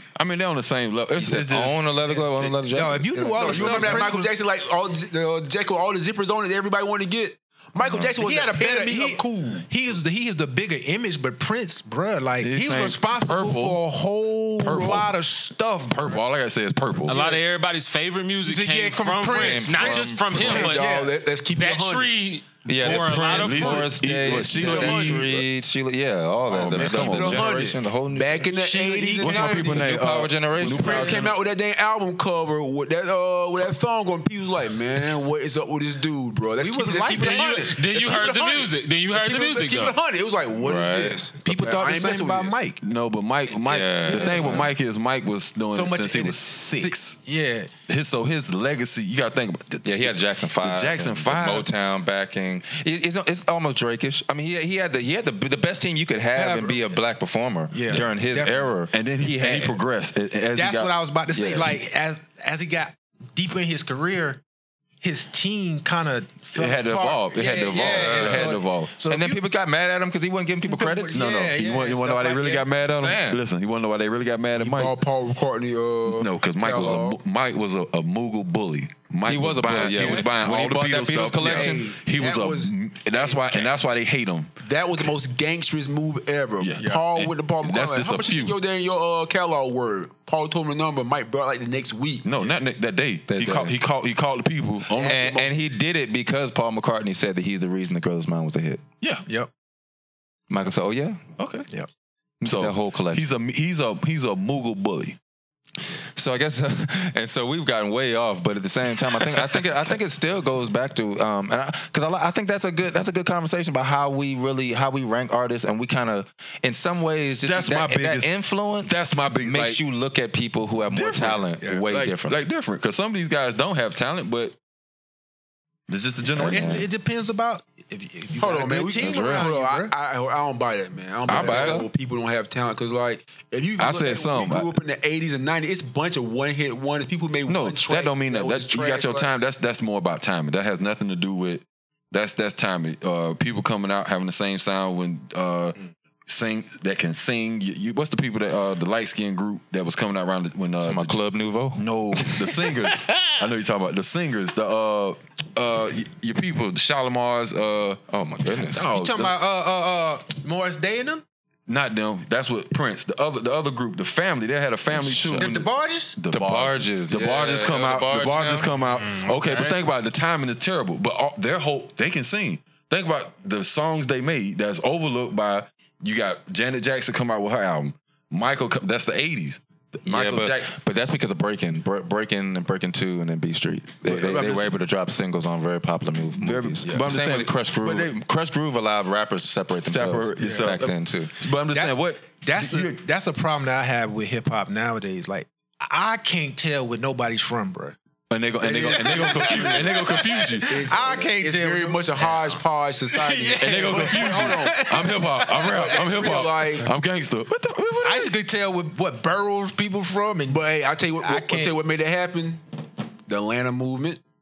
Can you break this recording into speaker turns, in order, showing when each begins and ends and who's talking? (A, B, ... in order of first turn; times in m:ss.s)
0:00.2-0:02.5 A
0:01.1-0:04.2 B
0:02.7-0:04.3 C
0:03.4-0:09.7 D
0:03.5-0:03.8 A
0:08.2-0:16.2 C
0:12.4-0:13.8 A
0:14.6-0:15.1 A
0:15.9-0:17.2 A
0:17.1-0:23.9 E
0:18.4-0:21.1 C
0:19.3-0:20.6 B
0:20.4-0:22.1 D
0:22.6-0:28.4 B
0:23.1-0:25.4 A
0:24.6-0:25.1 D
0:26.5-0:27.6 A
0:26.8-0:29.8 D
0:28.4-0:30.0 C
0:29.2-0:31.3 A
0:29.2-0:31.2 B
0:30.6-0:31.1 C
0:30.7-0:42.6 D
0:36.6-0:37.8 C
0:37.1-0:40.0 E
0:40.6-0:41.2 B
0:41.3-0:42.8 C
0:42.8-0:47.2 A
0:43.6-0:44.7 B
0:44.1-0:44.6 C
0:45.7-0:47.7 C
0:47.9-0:51.7 A
0:49.8-0:59.7 B
0:56.4-0:57.0 C
0:57.7-0:58.7 C
0:58.9-1:00.9 A
1:00.5-1:04.4 C
1:01.3-1:01.8 B
1:05.0-1:09.4 C
1:06.5-1:08.9 A
1:07.7-1:11.3 B
1:10.6-1:12.7 C
1:11.1-1:15.0 A
1:12.9-1:13.4 B
1:14.6-1:17.2 D
1:16.1-1:24.5 A
1:19.3-1:22.0 B
1:21.4-1:23.7 D
1:24.6-1:32.3 D
1:26.6-1:28.6 A
1:32.2-1:35.3 A
1:33.3-1:33.8 B
1:35.0-1:35.5 D
1:35.0-1:38.8 B
1:40.5-1:41.2 B
1:41.4-1:41.7 A
1:42.4-1:45.2 A
1:42.4-1:43.2 B
1:46.2-2:02.4 B
1:57.4-1:59.8 A
2:00.9-2:04.6 A
2:05.9-2:06.9 A
2:06.3-2:06.9 B
2:06.5-2:09.9 C
2:08.4-2:19.3 D
2:09.0-2:09.5 B
2:11.3-2:11.9 B
2:11.3-2:11.8 A
2:13.8-2:14.7 A
2:17.5-2:25.8 A
2:26.3-2:31.2 A
2:30.8-2:32.5 B
2:31.8-2:38.0 A
2:38.1-2:38.9 B
2:38.7-2:39.3 A
2:38.8-2:41.2 C
2:41.7-3:00.7 A
2:44.9-2:45.6 B
2:45.4-2:46.2 C
2:46.3-2:48.7 B
2:49.0-2:49.7 E
3:00.1-3:11.4 B
3:04.0-3:04.7 A
3:06.3-3:08.2 A
3:09.7-3:12.9 A
3:10.4-3:10.7 C
3:11.7-3:18.0 C
3:18.3-3:20.7 A
3:18.6-3:22.3 C
3:18.9-3:19.5 D
3:20.7-3:24.9 D
3:23.1-3:26.4 C
3:23.6-3:28.3 A
3:25.8-3:26.9 D
3:28.0-3:30.7 C
3:30.5-3:32.6 D
3:31.2-3:31.8 C
3:33.3-3:34.2 D